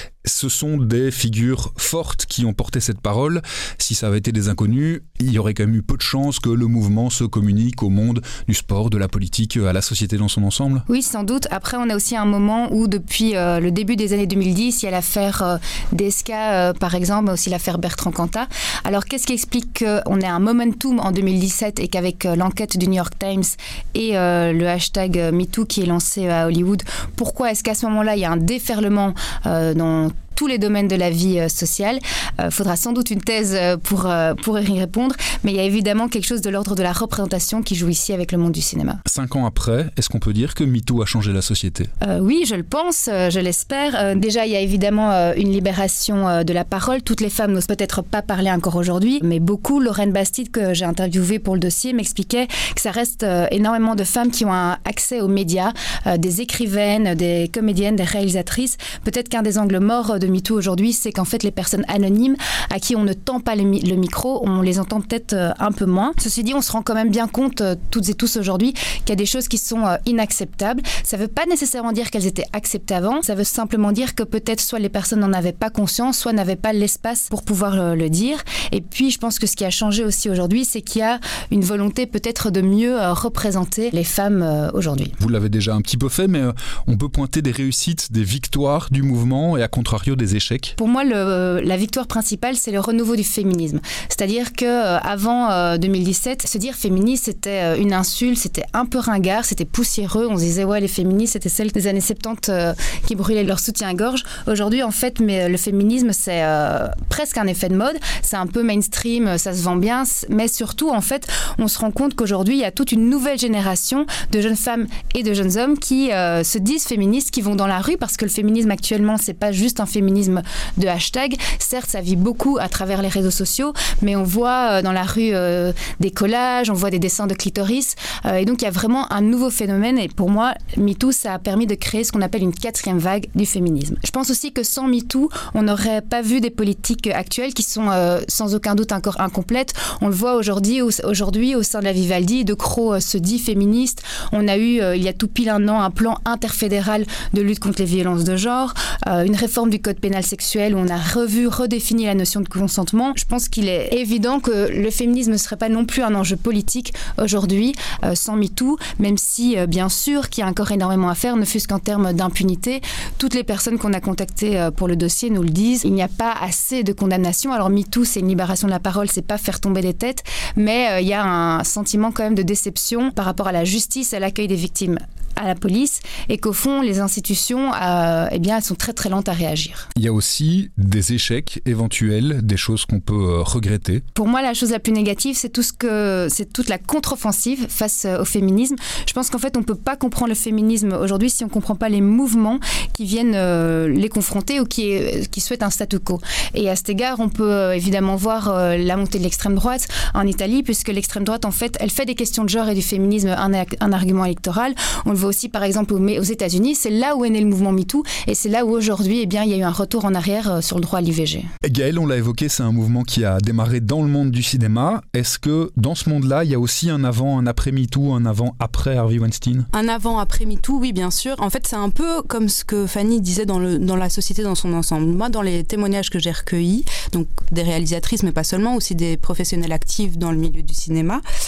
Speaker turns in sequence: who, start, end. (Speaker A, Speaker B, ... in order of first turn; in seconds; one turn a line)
Speaker A: 0.2-10.8
Speaker B: 10.9-39.0
Speaker A: 39.1-41.9
Speaker B: 42.0-85.2
Speaker A: 85.2-90.8
Speaker B: 90.8-179.9
Speaker A: 180.0-184.0
Speaker B: 184.2-211.5
Speaker A: 211.7-219.7
Speaker C: 219.7-231.2